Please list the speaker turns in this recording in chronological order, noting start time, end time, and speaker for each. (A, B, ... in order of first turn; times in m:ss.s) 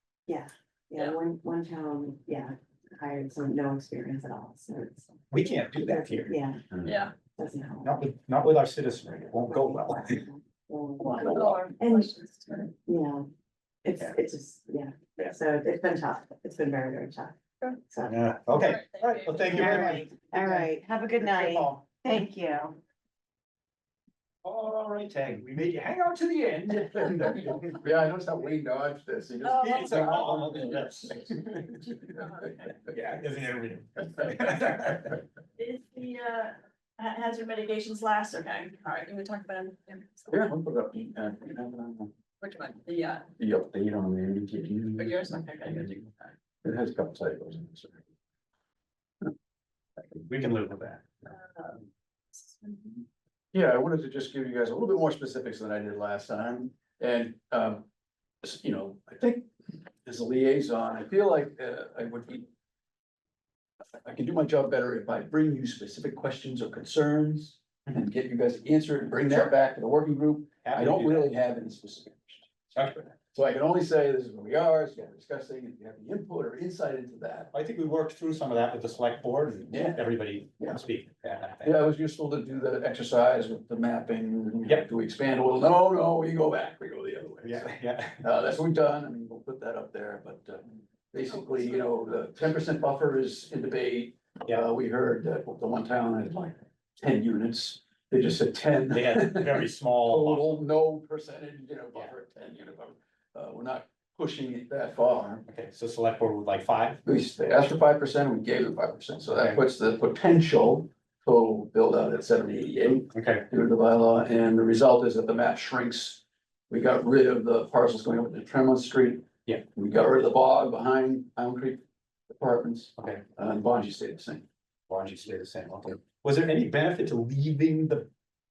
0:00.3-0:06.6 A
0:05.3-0:06.4 B
0:06.7-0:07.0 C
0:06.8-0:07.1 D
0:07.4-0:08.0 A
0:07.8-0:10.2 B
0:09.5-0:12.1 A
0:11.0-0:12.7 D
0:11.3-0:11.5 C
0:12.8-0:13.2 A
0:13.8-0:17.4 A
0:17.9-0:18.2 A
0:18.0-0:21.8 B
0:18.5-0:19.8 D
0:19.5-0:22.8 A
0:24.4-0:27.8 B
0:27.6-0:32.0 C
0:29.4-0:30.9 D
0:29.5-0:31.6 B
0:31.7-0:32.6 D
0:32.8-0:35.2 B
0:35.6-0:40.3 D
0:40.3-0:42.1 C
0:42.4-0:43.3 D
0:43.4-0:45.3 C
0:45.0-0:46.1 D
0:46.6-0:48.0 C
0:50.0-0:51.3 B
0:51.3-0:51.8 D
0:52.3-0:53.0 D
0:53.5-0:57.8 C
0:58.4-0:59.5 C
1:00.0-1:02.5 C
1:03.9-1:17.5 C
1:10.6-1:11.3 B
1:12.7-1:13.0 B
1:17.5-1:21.8 B
1:19.7-1:20.0 C
1:21.6-1:45.4 C
1:27.4-1:28.2 B
1:38.9-1:40.6 B
1:45.5-1:47.0 B
1:47.0-2:04.4 C
1:49.4-1:49.6 B
1:53.1-1:53.4 B
2:03.0-2:03.2 B
2:04.9-2:08.1 B